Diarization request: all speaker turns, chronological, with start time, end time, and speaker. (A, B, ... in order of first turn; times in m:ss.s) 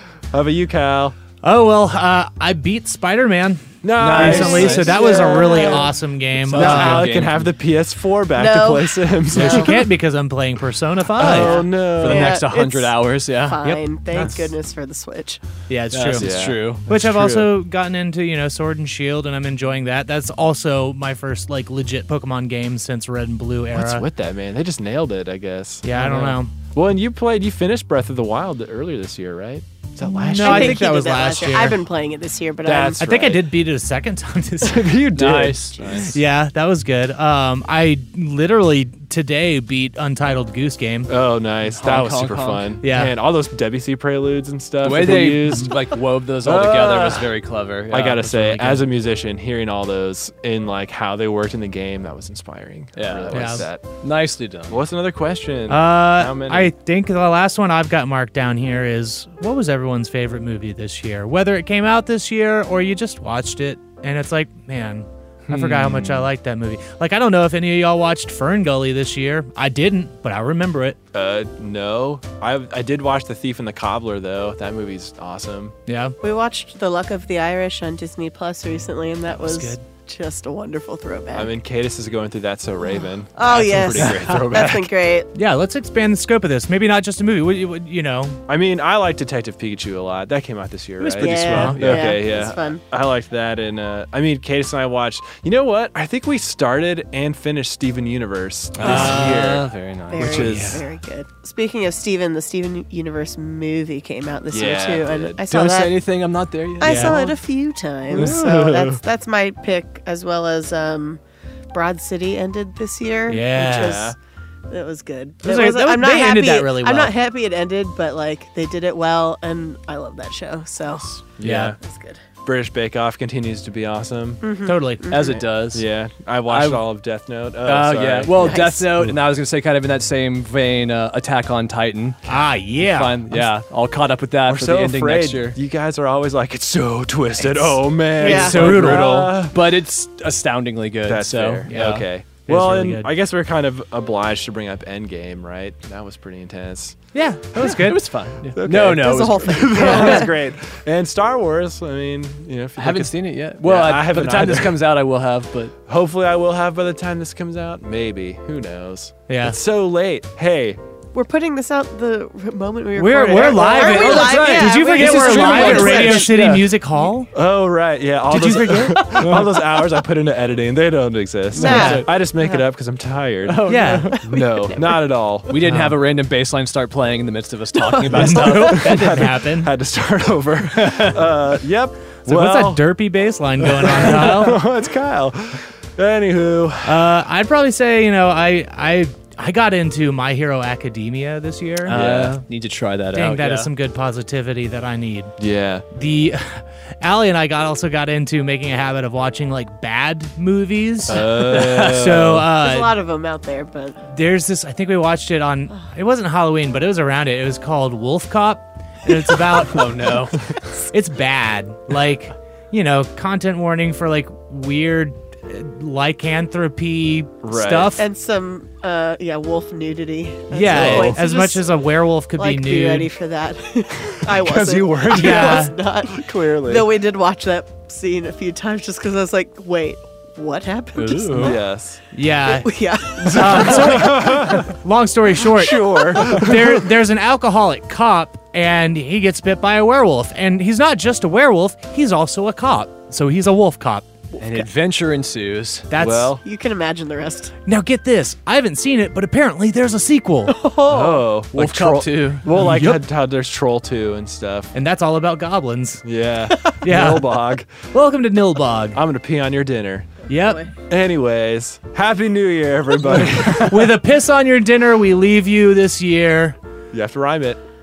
0:00.3-0:01.2 A
0:01.4-0:07.1 B
0:03.8-0:05.7 A
0:04.0-0:05.0 C
0:04.2-0:05.9 D
0:06.4-0:07.5 C
0:06.5-0:09.8 A
0:08.4-0:09.7 D
0:09.3-0:11.6 B
0:11.1-0:12.4 A
0:11.3-0:15.4 D
0:11.9-0:13.6 C
0:13.6-0:14.5 B
0:15.7-0:24.0 B
0:15.9-0:16.8 C
0:16.2-0:17.5 A
0:23.7-0:30.8 A
0:25.8-0:26.5 B
0:26.0-0:26.4 C
0:30.0-0:31.8 B
0:30.3-0:33.0 D
0:32.6-0:33.5 A
0:33.0-0:34.9 B
0:34.6-0:36.0 A
0:35.1-0:36.1 C
0:35.9-0:41.1 B
0:41.1-0:45.8 A
0:41.7-0:42.7 C
0:42.8-0:43.1 B
0:44.8-0:48.2 C
0:46.4-0:47.3 A
0:47.9-0:53.8 A
0:48.2-0:48.8 B
0:53.0-0:54.8 C
0:53.3-0:53.6 B
0:54.7-0:56.7 A
0:55.7-1:11.0 B
1:05.5-1:06.2 A
1:05.5-1:06.2 C
1:11.1-1:15.8 A
1:15.9-1:16.2 B
1:16.2-1:21.5 D
1:19.3-1:19.8 B
1:21.3-1:24.9 A
1:22.8-1:25.3 D
1:25.3-1:28.4 B
1:28.5-1:39.6 A
1:31.0-1:32.2 C
1:31.1-1:32.8 D
1:31.5-1:31.8 B
1:38.8-1:39.6 B
1:38.8-1:40.7 C
1:40.1-1:45.9 D
1:40.2-1:40.8 A
1:40.4-1:40.8 B
1:44.5-1:45.4 A
1:45.5-1:47.3 C
1:46.8-1:51.2 D
1:46.8-1:47.2 B
1:48.1-1:49.0 A
1:51.7-1:54.1 D
1:53.3-1:54.1 B
1:53.5-1:54.2 A
1:54.7-2:01.2 D
1:55.4-1:57.1 B
2:01.4-2:01.8 A
2:01.4-2:01.7 B
2:01.8-2:02.2 D
2:02.4-2:04.4 A
2:04.4-2:05.4 D
2:04.6-2:05.0 B
2:05.1-2:05.8 C
2:05.7-2:08.7 A
2:06.5-2:06.8 C
2:07.6-2:15.6 C
2:08.3-2:08.9 D
2:12.3-2:13.5 B
2:14.5-2:19.6 A
2:17.4-2:19.3 B
2:18.2-2:18.8 D
2:18.2-2:22.0 C
2:21.0-2:27.0 A
2:21.7-2:23.1 B
2:27.1-2:28.0 B
2:27.6-2:30.2 C
2:28.5-2:34.8 A
2:28.9-2:30.3 D
2:29.9-2:30.3 B
2:32.8-2:35.7 C
2:35.9-2:40.8 A
2:39.3-2:39.6 B
2:41.1-2:46.3 D
2:42.9-2:47.3 B
2:43.4-2:46.7 C
2:47.3-2:53.6 A
2:48.3-2:49.2 B
2:49.1-2:49.5 C
2:51.5-2:52.6 D
2:51.5-2:52.1 C
2:53.4-2:54.2 C
2:53.6-2:54.2 B
2:54.1-2:55.0 D
2:54.2-2:55.5 A
2:55.5-2:59.4 C
2:55.6-2:56.0 B
2:57.8-2:58.7 D
2:58.1-2:59.7 B
2:58.7-3:02.8 A
3:00.7-3:01.2 C
3:02.2-3:04.6 B
3:03.6-3:07.0 A
3:06.8-3:12.0 B
3:11.8-3:13.7 C
3:11.9-3:12.4 A
3:13.1-3:15.3 B
3:15.4-3:15.8 A
3:15.9-3:22.9 B
3:21.1-3:22.5 A
3:21.5-3:22.2 C
3:22.5-3:24.0 D
3:24.0-3:30.1 B
3:29.5-3:30.5 C
3:30.9-3:38.0 B
3:37.4-3:38.0 A
3:38.0-3:41.6 D
3:40.5-3:43.1 B
3:40.7-3:41.1 C
3:40.8-3:41.1 A
3:42.4-3:51.6 D
3:44.2-3:46.9 A
3:45.1-3:45.7 B
3:50.9-3:51.6 C
3:51.4-3:52.0 A
3:52.1-3:52.7 B
3:52.5-3:54.2 D
3:53.2-3:54.7 A
3:53.3-4:04.1 B
3:55.5-3:56.9 A
4:04.4-4:05.9 C
4:05.9-4:06.4 B
4:06.0-4:06.4 A
4:06.4-4:07.6 D
4:07.6-4:10.5 B
4:10.5-4:11.2 D
4:10.9-4:14.7 A
4:11.5-4:12.5 C
4:12.5-4:13.0 B
4:14.7-4:16.0 B
4:16.0-4:17.7 A
4:16.8-4:19.0 B
4:18.9-4:20.1 A
4:20.3-4:20.6 B
4:20.4-4:20.7 D
4:20.9-4:23.9 A
4:23.6-4:26.6 B
4:26.9-4:27.6 A